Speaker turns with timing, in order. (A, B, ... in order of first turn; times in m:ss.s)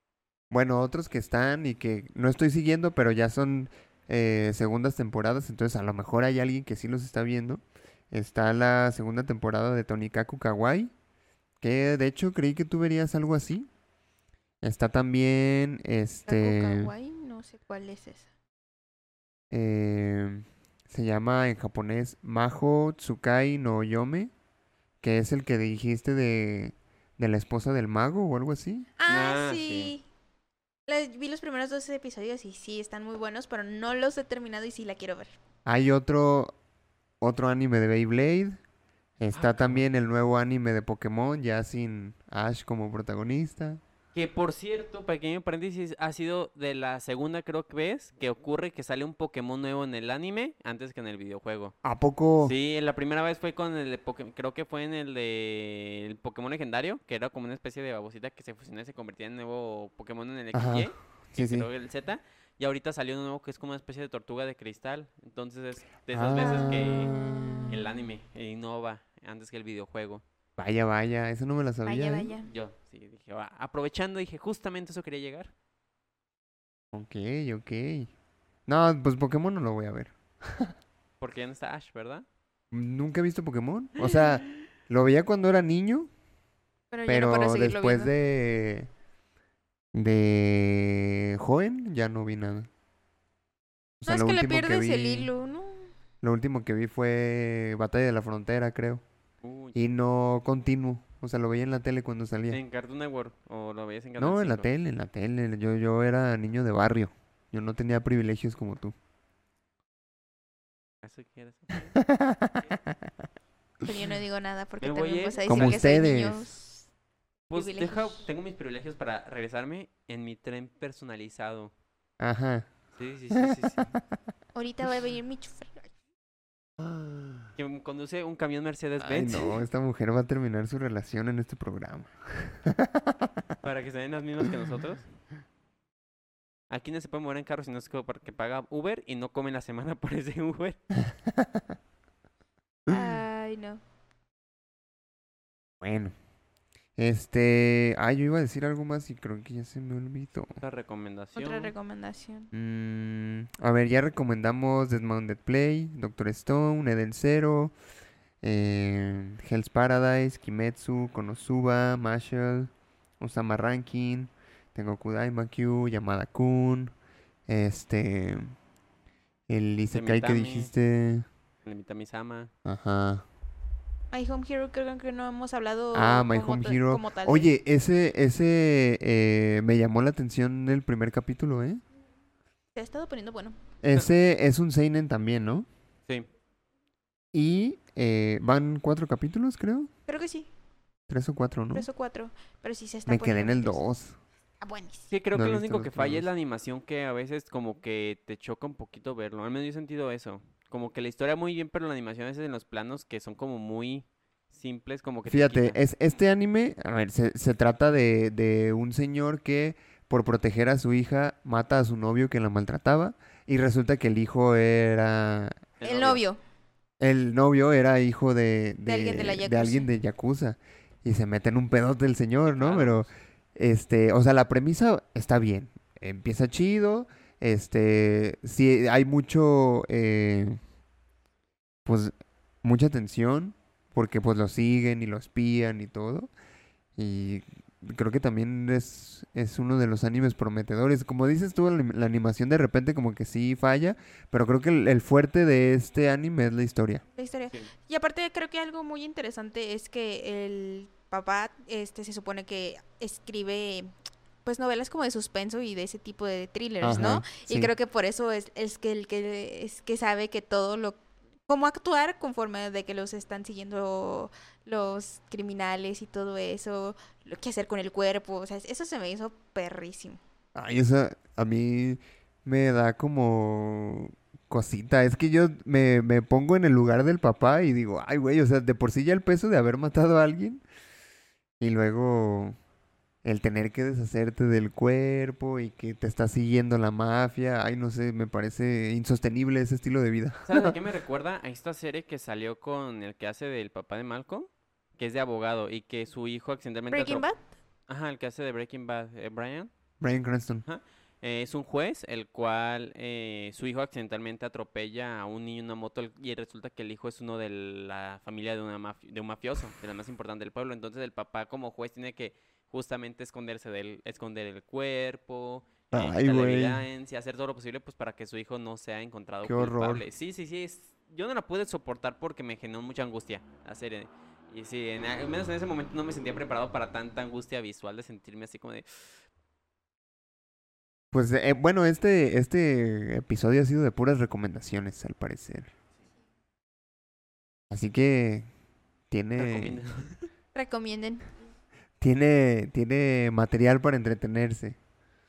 0:00.5-0:10.9 A
0:11.6-0:13.7 A
0:14.6-0:16.9 A
0:16.3-0:18.3 B
0:19.5-0:24.3 A
0:25.0-0:28.9 A
0:29.0-0:30.0 B
0:29.1-0:29.9 C
0:30.9-0:35.4 B
0:35.6-0:36.5 A
0:37.2-0:38.6 A
0:39.2-0:43.8 A
0:39.3-0:39.8 C
0:44.1-0:51.7 C
0:51.8-0:52.5 A
0:52.4-1:10.2 C
1:00.5-1:01.7 A
1:06.1-1:07.8 A
1:10.6-1:12.3 A
1:11.8-1:12.5 B
1:12.4-1:15.5 C
1:16.9-1:18.1 A
1:18.7-1:20.7 A
1:21.2-1:22.2 C
1:22.7-1:26.1 A
1:26.9-1:28.1 B
1:27.1-1:28.9 A
1:29.9-1:32.7 A
1:34.0-1:35.3 A
1:34.0-1:35.9 B
1:36.2-1:39.0 A
1:39.4-1:39.8 C
1:39.7-1:42.6 A
1:42.5-1:44.7 C
1:44.2-1:48.9 A
1:51.0-1:52.0 C
1:51.9-1:53.1 A
1:53.8-1:56.8 B
1:54.8-1:55.8 C
1:55.5-1:56.6 A
1:57.5-2:01.7 C
1:57.5-1:58.2 B
2:02.2-2:02.7 A
2:03.0-2:03.9 C
2:03.3-2:04.0 A
2:04.5-2:05.9 B
2:06.8-2:07.5 A
2:07.6-2:09.5 C
2:09.0-2:13.4 A
2:13.6-2:15.0 C
2:16.7-2:20.8 C
2:21.1-2:21.7 A
2:22.9-2:23.8 B
2:25.8-2:26.1 A
2:27.0-2:30.6 A
2:30.6-2:31.7 C
2:31.4-2:32.5 B
2:32.5-2:37.7 A
2:38.4-2:46.9 A
2:47.5-2:48.5 A
2:49.5-2:51.2 A
2:49.9-2:50.7 C
2:51.6-2:52.5 C
2:52.6-2:53.2 A
2:54.1-2:57.5 B
2:55.9-3:01.8 A
3:02.7-3:03.6 B
3:03.8-3:05.7 A
3:07.3-3:09.9 A
3:10.1-3:10.5 B
3:11.1-3:11.9 A
3:11.7-3:13.8 B
3:13.1-3:14.2 A
3:14.6-3:15.1 B
3:15.1-3:25.8 C
3:15.3-3:16.3 A
3:25.2-3:35.6 A
3:35.8-3:36.2 C
3:35.8-3:36.4 B
3:37.0-3:50.6 A
3:38.8-3:39.9 B
3:42.5-3:43.0 C
3:51.8-3:56.3 A
3:57.0-4:07.0 A
4:07.2-4:13.9 B
4:14.4-4:30.2 B
4:16.8-4:17.7 A
4:30.5-4:40.6 A
4:41.6-4:42.6 A
4:43.2-4:50.8 A
4:50.4-4:57.2 C
4:56.9-4:57.4 B
4:57.9-4:59.7 C
5:00.0-5:00.6 A
5:00.6-5:29.2 C
5:15.9-5:16.8 A
5:19.4-5:20.0 A
5:31.1-5:35.7 A
5:37.7-5:38.5 A
5:39.1-5:39.8 A
5:39.4-5:40.3 C
5:40.5-5:41.2 B
5:42.0-5:44.8 A